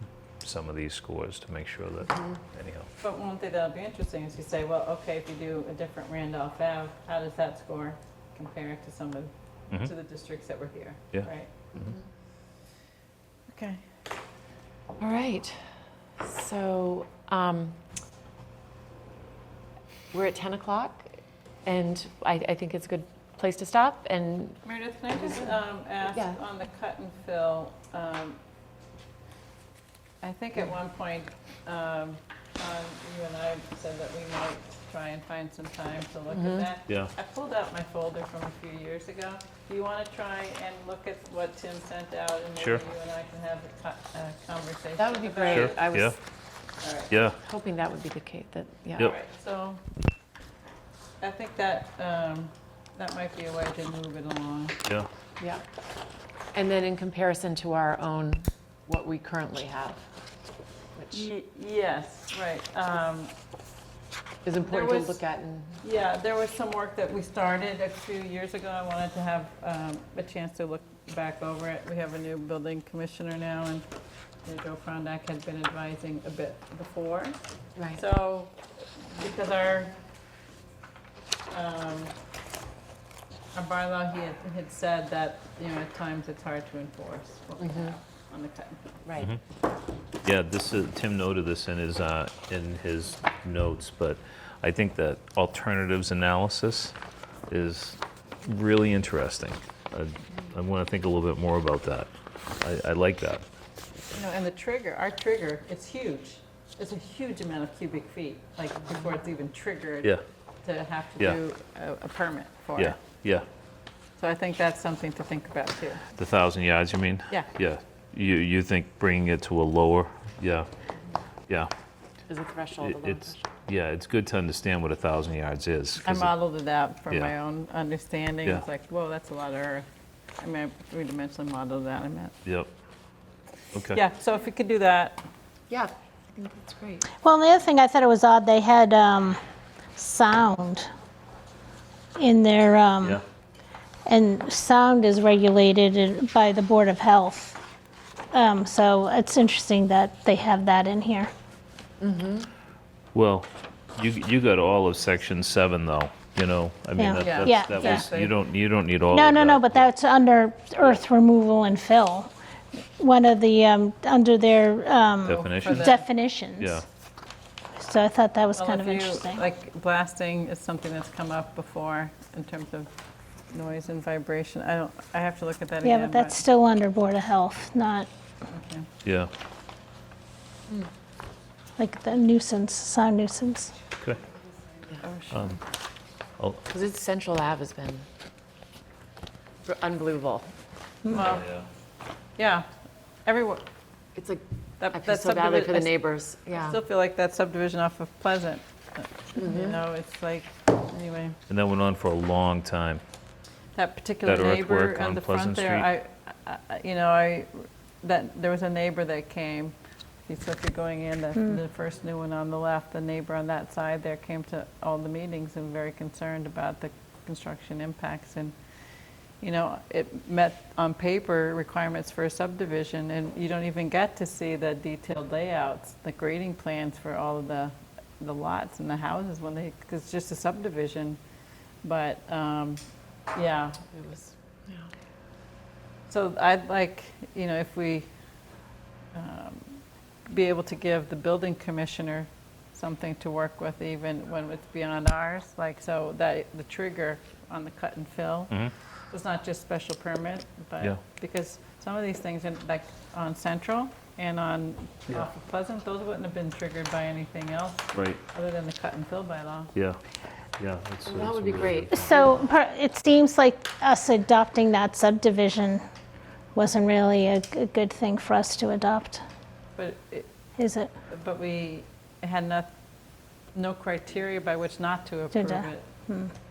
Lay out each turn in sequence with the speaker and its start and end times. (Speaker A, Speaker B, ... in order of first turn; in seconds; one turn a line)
Speaker A: 0.4-2.9
Speaker B: 2.1-2.4
Speaker C: 3.0-11.5
Speaker A: 11.1-11.9
Speaker C: 13.5-13.8
Speaker B: 15.0-15.6
Speaker B: 16.2-17.8
Speaker B: 20.1-24.6
Speaker C: 24.6-28.4
Speaker B: 25.2-25.5
Speaker B: 26.1-26.4
Speaker C: 30.2-46.1
Speaker B: 36.3-36.7
Speaker A: 42.6-42.8
Speaker B: 45.0-46.1
Speaker A: 45.5-46.1
Speaker C: 46.8-47.1
Speaker A: 47.1-47.4
Speaker B: 47.4-49.1
Speaker C: 49.0-49.8
Speaker C: 51.2-54.8
Speaker B: 56.5-60.0
Speaker B: 61.0-61.3
Speaker C: 61.1-63.3
Speaker B: 64.4-65.8
Speaker C: 64.6-65.2
Speaker C: 65.8-73.8
Speaker C: 74.4-77.4
Speaker C: 77.9-78.5
Speaker C: 79.1-80.0
Speaker C: 81.5-82.1
Speaker C: 83.5-89.0
Speaker B: 87.6-88.0
Speaker B: 89.0-89.3
Speaker A: 90.2-96.9
Speaker A: 97.5-102.1
Speaker A: 102.6-103.4
Speaker C: 104.1-113.0
Speaker A: 112.8-113.5
Speaker C: 114.2-116.0
Speaker A: 116.1-120.7
Speaker B: 122.3-123.5
Speaker A: 122.8-126.3
Speaker C: 126.0-129.9
Speaker A: 127.1-127.3
Speaker C: 130.4-132.3
Speaker A: 132.4-132.7
Speaker A: 133.7-134.0
Speaker C: 133.9-135.2
Speaker B: 135.7-137.1
Speaker D: 137.2-139.4
Speaker D: 139.9-140.9
Speaker D: 142.2-143.2
Speaker D: 144.1-147.6
Speaker D: 148.3-151.3
Speaker B: 152.0-152.5
Speaker A: 153.1-159.9
Speaker D: 157.0-158.1
Speaker C: 157.2-158.3
Speaker D: 159.1-162.3
Speaker D: 163.0-166.8
Speaker A: 165.2-166.0
Speaker C: 165.5-166.1
Speaker A: 166.6-166.8
Speaker D: 167.8-169.5
Speaker C: 168.5-172.9
Speaker C: 173.5-176.4
Speaker D: 175.8-178.1
Speaker C: 178.5-178.9
Speaker A: 179.0-179.3
Speaker D: 181.8-183.7
Speaker C: 185.0-185.5
Speaker A: 185.3-185.6
Speaker B: 186.7-188.1
Speaker B: 189.6-190.5
Speaker C: 191.1-191.5
Speaker A: 191.1-191.7
Speaker C: 192.4-192.7
Speaker C: 193.2-193.7
Speaker B: 194.1-196.8
Speaker C: 194.8-201.4
Speaker B: 199.3-199.8
Speaker A: 201.5-203.0
Speaker C: 203.7-209.7
Speaker A: 204.2-205.9
Speaker C: 210.3-218.5
Speaker C: 219.4-231.2
Speaker C: 231.8-234.3
Speaker C: 236.1-238.1
Speaker C: 239.1-248.5
Speaker C: 249.1-259.7
Speaker A: 257.9-258.2
Speaker A: 259.7-260.0
Speaker A: 260.6-262.0
Speaker B: 261.1-262.3
Speaker D: 261.9-265.8
Speaker D: 266.5-269.2
Speaker C: 269.8-270.3
Speaker D: 270.6-270.9
Speaker C: 271.1-272.7
Speaker C: 273.5-275.9
Speaker D: 275.3-276.3